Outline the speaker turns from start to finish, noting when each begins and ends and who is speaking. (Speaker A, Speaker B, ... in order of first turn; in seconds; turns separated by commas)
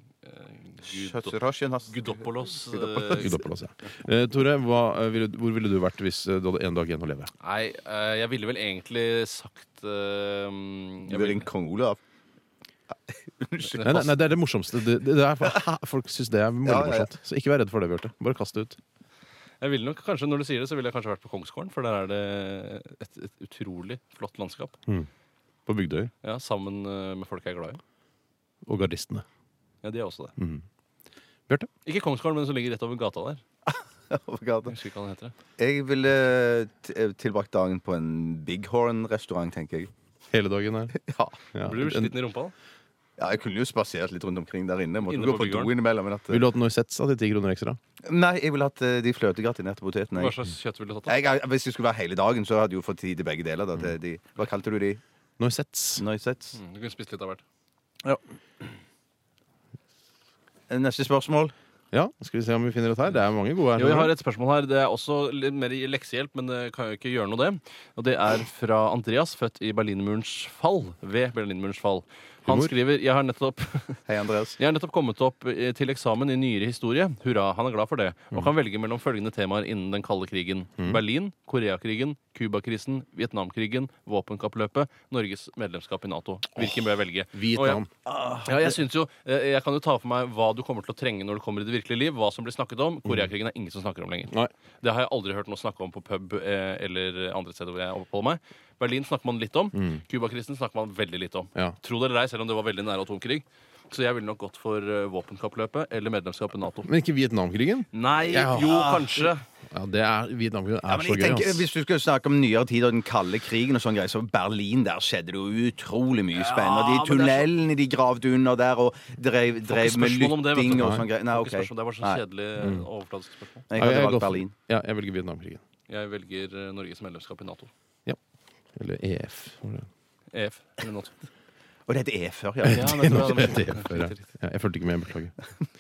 Speaker A: 0.2-1.4, Speaker B: 0.8-3.4, Speaker A: 1.9-3.4, Speaker C: 3.1-7.3, Speaker A: 7.4-11.5, Speaker B: 11.1-12.0, Speaker B: 13.1-14.1, Speaker C: 13.8-18.8, Speaker B: 16.6-17.1, Speaker A: 19.6-24.8, Speaker C: 25.7-26.1, Speaker A: 26.2-27.8, Speaker C: 28.6-29.2, Speaker A: 29.8-30.3, Speaker C: 30.4-30.6, Speaker A: 31.9-33.4, Speaker B: 33.7-34.7, Speaker A: 34.7-35.3, Speaker B: 35.6-39.9, Speaker C: 40.3-40.9, Speaker B: 40.9-41.4, Speaker C: 41.5-42.1, Speaker A: 41.6-42.5, Speaker B: 43.2-46.5, Speaker A: 45.0-45.7, Speaker C: 46.3-47.8, Speaker B: 48.1-50.4, Speaker A: 50.2-51.2, Speaker B: 51.1-55.0, Speaker C: 55.4-56.0, Speaker B: 56.0-56.6, Speaker A: 56.5-57.4, Speaker B: 60.7-61.5, Speaker C: 61.9-64.1, Speaker A: 63.8-74.0, Speaker C: 72.5-72.7, Speaker B: 74.1-74.6, Speaker A: 74.6-87.8, Speaker C: 86.6-87.9, Speaker B: 88.1-88.8, Speaker A: 88.5-106.9, Speaker C: 99.8-100.0, Speaker C: 106.8-108.3, Speaker A: 107.9-109.4, Speaker B: 108.3-109.3, Speaker C: 109.7-111.7, Speaker B: 110.9-122.2, Speaker A: 116.3-117.5, Speaker A: 119.7-123.7, Speaker C: 120.7-121.1, Speaker C: 122.6-122.9, Speaker B: 123.7-124.5, Speaker C: 123.7-125.6, Speaker A: 125.9-127.7, Speaker C: 128.8-129.9, Speaker A: 130.3-131.3, Speaker B: 131.9-133.5, Speaker C: 132.6-135.3, Speaker A: 132.7-134.2